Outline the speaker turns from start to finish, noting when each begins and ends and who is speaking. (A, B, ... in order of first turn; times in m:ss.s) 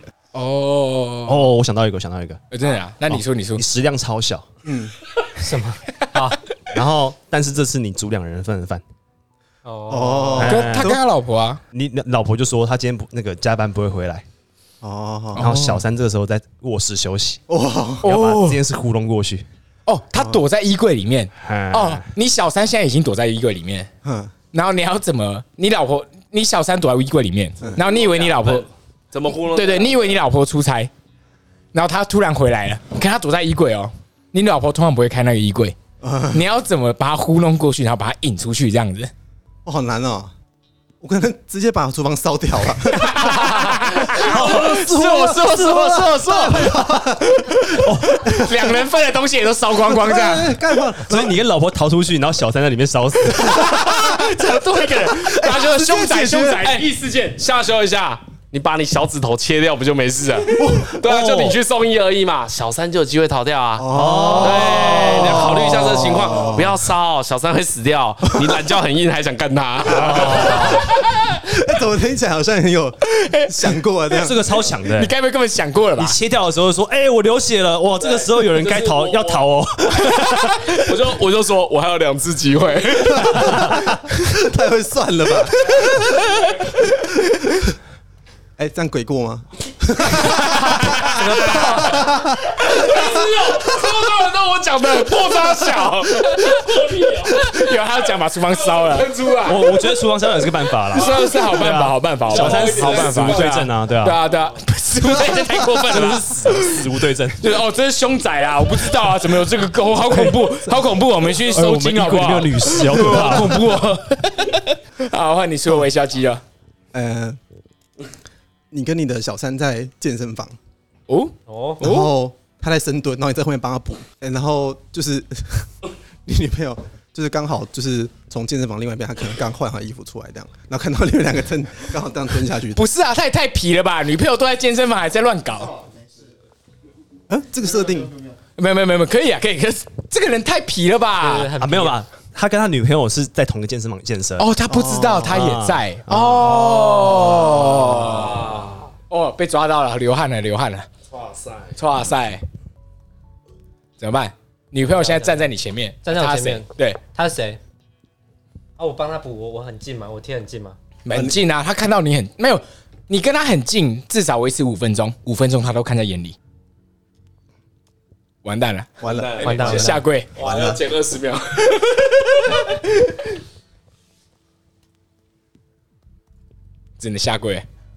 0:00.3-0:01.5 A
0:01.3-0:02.5 B
0:02.5-0:03.6 A
0:03.1-0:04.4 B
0:04.6-0:04.9 C
0:05.4-0:06.4 D
0:06.7-0:08.8 B
0:09.6-0:10.5 D
0:09.9-0:11.0 C
0:10.4-0:11.6 A
0:10.4-0:11.0 B
0:11.7-0:14.2 B
0:14.8-0:15.8 C
0:15.4-0:17.4 B
0:15.4-0:15.8 A
0:17.5-0:18.1 C
0:18.0-0:19.4 B
0:18.0-0:18.6 A
0:19.9-0:23.9 A
0:20.1-0:20.4 C
0:21.4-0:22.1 B
0:24.0-0:24.3 C
0:24.5-0:28.6 A
0:27.8-0:30.2 E
0:29.3-0:30.9 A
0:31.7-0:35.8 A
0:36.0-0:36.4 C
0:36.3-0:39.1 A
0:39.6-0:40.3 C
0:41.0-0:48.8 C
0:43.1-0:50.6 A
0:44.3-0:44.9 B
0:47.8-0:48.2 B
0:49.8-0:51.4 C
0:51.0-0:53.8 B
0:53.3-0:54.3 C
0:53.4-0:57.3 A
0:55.1-0:56.8 C
0:56.6-1:10.8 E
1:00.6-1:00.9 C
1:01.0-1:01.6 B
1:03.8-1:06.8 C
1:03.9-1:06.0 B
1:09.9-1:10.9 B
1:11.4-1:14.5 C
1:13.2-1:13.7 A
1:14.2-1:15.1 B
1:14.9-1:16.2 A
1:16.0-1:20.7 B
1:18.0-1:19.5 E
1:20.7-1:23.7 E
1:23.3-1:26.0 C
1:28.6-1:32.6 C
1:30.2-1:32.1 A
1:31.2-1:31.7 D
1:32.6-1:37.8 E
1:35.0-1:39.4 A
1:38.5-1:41.2 E
1:39.4-1:44.2 B
1:40.9-1:46.9 A
1:42.3-1:44.5 E
1:45.1-1:47.5 B
1:47.4-1:56.4 A
1:50.1-1:50.4 B
1:51.4-1:54.0 B
1:56.9-1:57.4 C
1:58.7-2:00.5 C
2:01.1-2:02.1 A
2:01.5-2:01.8 D
2:01.8-2:05.7 C
2:06.2-2:12.8 C
2:12.8-2:15.8 A
2:17.3-2:18.2 C
2:18.6-2:21.5 A
2:21.2-2:22.0 D
2:21.6-2:24.5 B
2:24.4-2:30.9 A
2:24.7-2:25.4 C
2:25.3-2:27.6 B
2:27.9-2:28.9 E
2:31.1-2:31.8 E
2:31.8-2:32.4 A
2:34.0-2:37.0 A
2:34.8-2:35.5 D
2:36.0-2:37.6 D
2:38.8-2:40.8 D
2:41.0-2:46.4 A
2:48.4-2:48.9 A
2:49.0-2:50.8 C
2:49.0-2:52.6 E
2:49.4-2:50.0 D
2:49.4-2:50.3 A
2:57.0-2:57.6 A